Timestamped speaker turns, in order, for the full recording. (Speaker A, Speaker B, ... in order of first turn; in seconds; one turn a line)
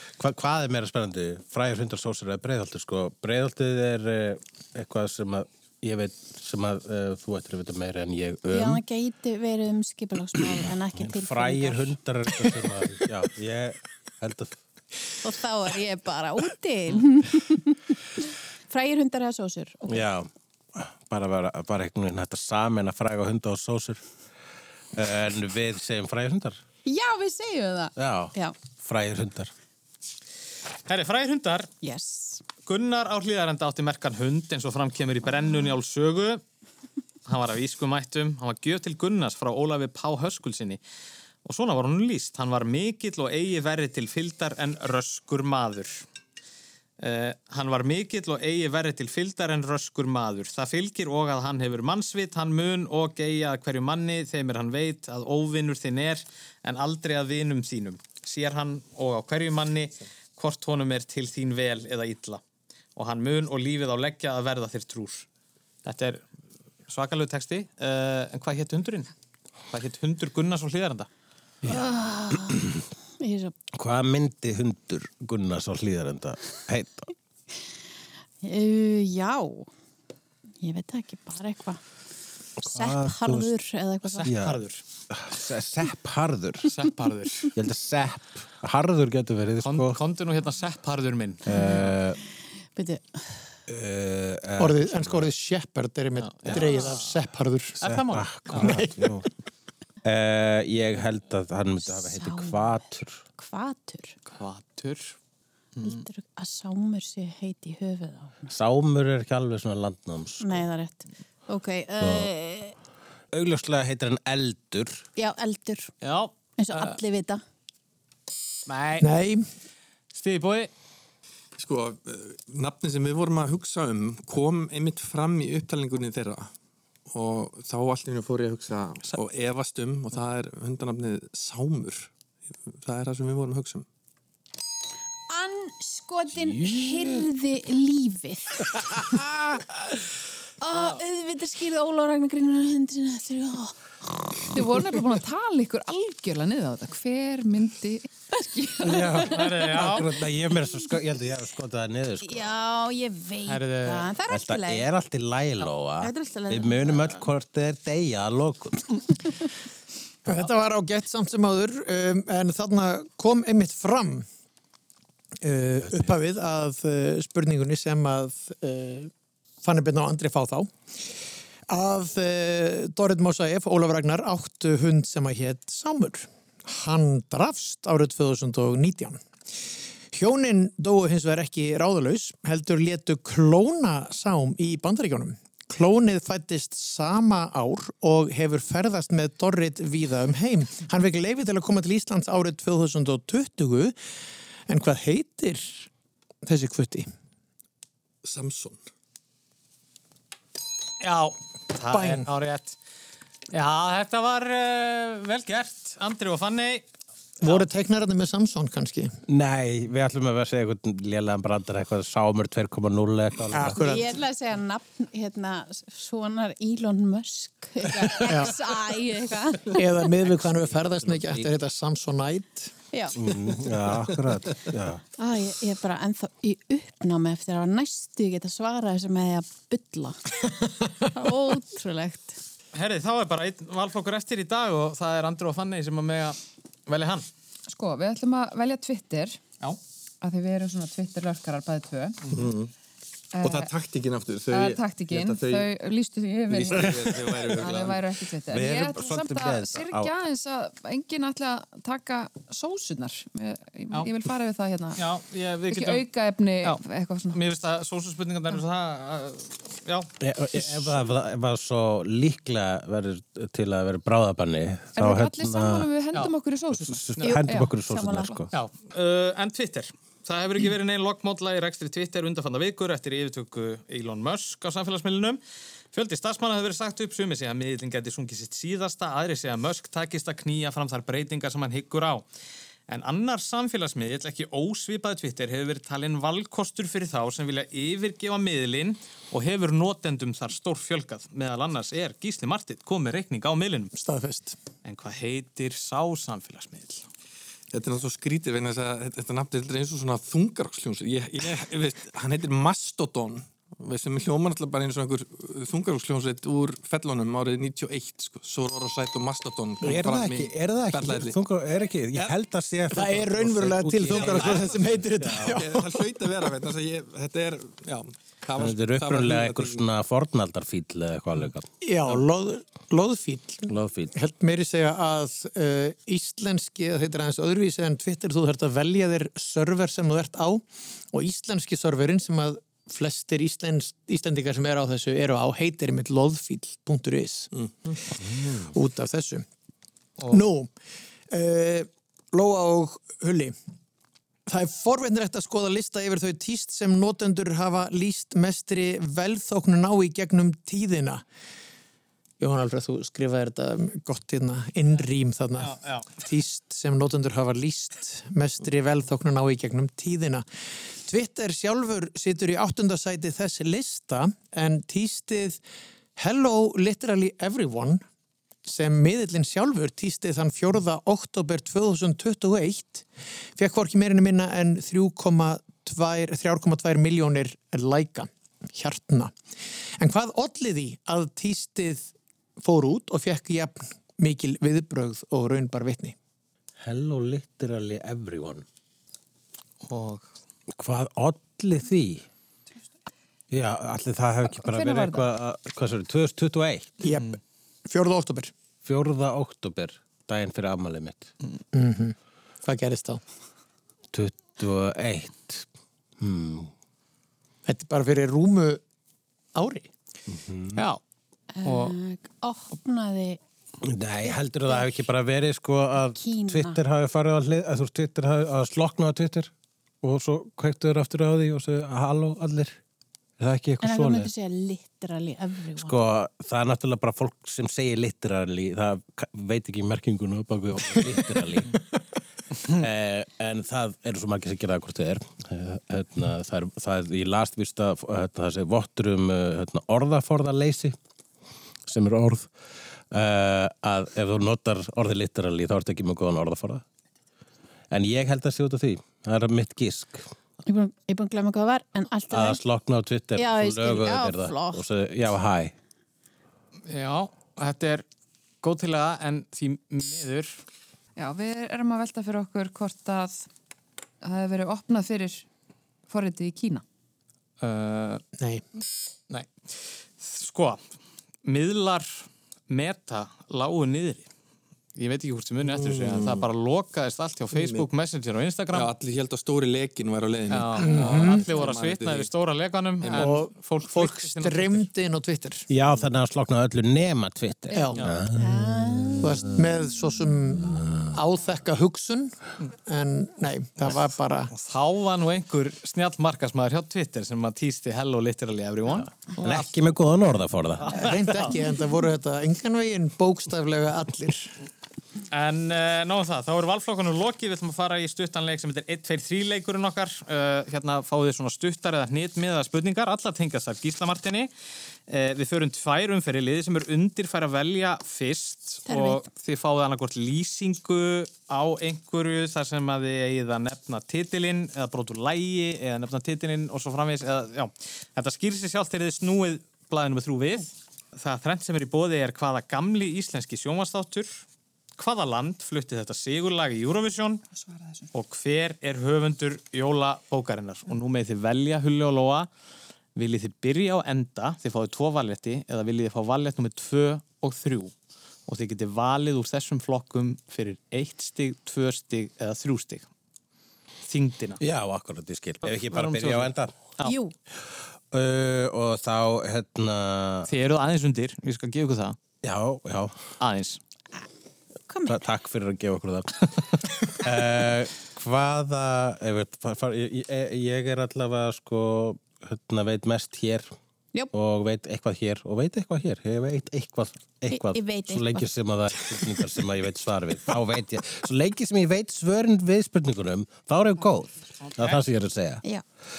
Speaker A: 0.2-8.8
Speaker B: 8.5-12.7
Speaker A: 10.5-14.6
Speaker B: 15.2-20.1
Speaker A: 19.9-24.0
Speaker A: 24.9-26.6
Speaker B: 26.9-28.6
Speaker A: 28.0-29.5
Speaker C: 30.9-31.7
Speaker B: 31.8-32.4
Speaker C: 32.6-36.4
Speaker C: 37.3-40.8
Speaker C: 41.4-46.1
Speaker C: 47.0-62.4
Speaker C: 63.0-65.3
Speaker C: 65.9-66.2
Speaker C: 66.9-69.1
Speaker C: 69.7-71.1
Speaker A: 71.6-71.9
Speaker B: 71.7-73.5
Speaker A: 73.7-77.1
Speaker B: 78.4-79.7
Speaker B: 80.6-81.8
Speaker B: 82.6-84.3
Speaker A: 82.7-83.6
Speaker C: 84.0-84.8
Speaker A: 84.2-84.6
Speaker A: 85.1-86.8
Speaker C: 86.7-87.5
Speaker A: 87.4-90.0
Speaker C: 89.6-91.8
Speaker A: 91.4-92.2
Speaker B: 91.5-92.0
Speaker B: 92.8-93.5
Speaker A: 93.7-95.3
Speaker D: 94.6-97.8
Speaker C: 96.2-97.1
Speaker C: 97.8-98.8
Speaker A: 97.8-99.3
Speaker D: 98.6-99.1
Speaker A: 100.0-103.2
Speaker B: 101.8-102.8
Speaker B: 103.4-104.2
Speaker C: 104.3-105.2
Speaker C: 105.8-106.0
Speaker B: 105.8-108.5
Speaker A: 108.5-110.7
Speaker B: 110.4-112.8
Speaker A: 112.0-112.3
Speaker A: 113.3-115.1
Speaker B: 115.2-115.9
Speaker C: 116.0-117.0
Speaker B: 116.6-117.4
Speaker C: 118.7-119.1
Speaker D: 119.0-119.5
Speaker C: 120.1-120.7
Speaker E: 121.6-126.5
Speaker E: 127.1-132.1
Speaker E: 132.7-133.8
Speaker B: 135.3-139.3
Speaker A: 136.3-137.3
Speaker B: 140.6-144.6
Speaker C: 140.7-141.0
Speaker F: 144.5-149.2
Speaker B: 148.8-149.2
Speaker A: 148.8-152.5
Speaker C: 149.3-150.1
Speaker B: 152.2-154.8
Speaker C: 153.5-154.1
Speaker A: 154.3-159.0
Speaker B: 156.0-157.2
Speaker D: 160.3-164.3
Speaker D: 165.4-169.1
Speaker A: 165.8-166.1
Speaker D: 169.6-170.7
Speaker D: 171.7-179.2
Speaker D: 180.1-193.9
Speaker D: 194.7-195.9
Speaker D: 196.4-197.1
Speaker E: 198.2-198.8
Speaker C: 201.0-202.8
Speaker D: 201.9-202.3
Speaker C: 203.5-206.8
Speaker D: 207.4-209.2
Speaker A: 209.3-213.8
Speaker D: 213.5-214.1
Speaker B: 213.8-219.9
Speaker D: 218.2-218.6
Speaker D: 219.7-222.7
Speaker A: 220.8-221.5
Speaker B: 222.9-223.2
Speaker A: 223.1-225.0
Speaker B: 225.2-232.4
Speaker C: 232.7-237.3
Speaker F: 237.7-239.4
Speaker F: 240.2-242.2
Speaker E: 242.3-242.7
Speaker F: 243.3-243.7
Speaker E: 243.4-245.7
Speaker F: 244.5-255.0
Speaker E: 246.5-248.1
Speaker A: 246.8-247.4
Speaker A: 248.5-250.1
Speaker C: 255.0-256.0
Speaker F: 255.7-257.4
Speaker C: 257.3-260.1
Speaker A: 260.2-265.9
Speaker F: 264.9-267.7
Speaker A: 266.7-268.5
Speaker B: 267.2-268.4
Speaker C: 268.5-275.4
Speaker C: 275.9-282.3
Speaker C: 282.9-293.9
Speaker D: 293.9-294.6
Speaker C: 294.8-297.1
Speaker E: 297.7-311.4
Speaker A: 309.8-315.6
Speaker D: 312.9-315.9
Speaker E: 314.1-319.8
Speaker A: 318.6-322.2
Speaker D: 321.8-337.5
Speaker A: 323.7-324.1
Speaker D: 338.6-339.4
Speaker D: 340.3-340.7
Speaker D: 341.3-343.6
Speaker D: 344.5-351.2
Speaker D: 352.4-360.4
Speaker C: 355.6-356.1
Speaker D: 361.0-365.6
Speaker D: 366.2-368.0
Speaker D: 368.6-373.1
Speaker D: 373.6-379.3
Speaker D: 380.0-386.2
Speaker A: 386.8-388.6
Speaker C: 389.8-390.3
Speaker A: 390.7-392.3
Speaker A: 393.5-396.9
Speaker F: 394.5-395.3
Speaker D: 397.0-397.4
Speaker D: 397.9-398.5
Speaker A: 398.8-401.3
Speaker D: 401.7-403.2
Speaker A: 404.1-405.7
Speaker A: 406.2-406.7
Speaker D: 407.7-408.8
Speaker D: 409.6-409.9
Speaker A: 410.3-410.8
Speaker C: 410.8-411.0
Speaker B: 411.6-413.4
Speaker C: 411.6-411.9
Speaker A: 413.8-422.8
Speaker B: 414.2-415.0
Speaker B: 416.1-416.8
Speaker A: 423.4-424.3
Speaker B: 423.8-425.9
Speaker A: 425.8-431.8
Speaker A: 432.6-441.0
Speaker A: 441.9-446.8
Speaker A: 447.9-450.3
Speaker B: 450.7-452.6
Speaker A: 452.3-455.7
Speaker B: 453.3-454.8
Speaker C: 456.9-458.0
Speaker C: 458.6-460.6
Speaker F: 461.2-463.5
Speaker F: 464.2-465.4
Speaker F: 466.1-466.8
Speaker C: 467.6-468.2
Speaker D: 468.4-468.6
Speaker C: 470.2-470.8
Speaker C: 471.4-474.3
Speaker C: 474.9-478.9
Speaker E: 475.7-476.5
Speaker E: 477.5-477.9
Speaker E: 478.7-482.3
Speaker C: 480.5-484.9
Speaker D: 480.8-481.4
Speaker E: 483.0-483.4
Speaker D: 483.1-485.7
Speaker A: 485.7-489.9
Speaker D: 487.7-488.0
Speaker B: 488.4-489.3
Speaker D: 489.2-494.5
Speaker A: 490.6-491.1
Speaker C: 494.5-499.7
Speaker A: 498.9-501.1
Speaker C: 500.9-501.5
Speaker D: 500.9-504.6
Speaker C: 505.3-514.5
Speaker C: 515.1-534.4
Speaker B: 518.9-519.2
Speaker C: 535.0-537.4
Speaker F: 537.5-538.1
Speaker C: 538.1-542.5
Speaker C: 543.2-547.9
Speaker C: 548.5-553.1
Speaker C: 554.1-554.6
Speaker A: 554.6-556.7
Speaker C: 555.6-557.1
Speaker B: 557.0-557.3
Speaker A: 558.1-560.5
Speaker C: 560.5-562.2
Speaker A: 562.4-563.2
Speaker C: 563.4-563.8
Speaker B: 564.9-565.2
Speaker A: 565.0-573.7
Speaker A: 574.3-585.6
Speaker B: 577.5-578.5
Speaker C: 584.6-585.0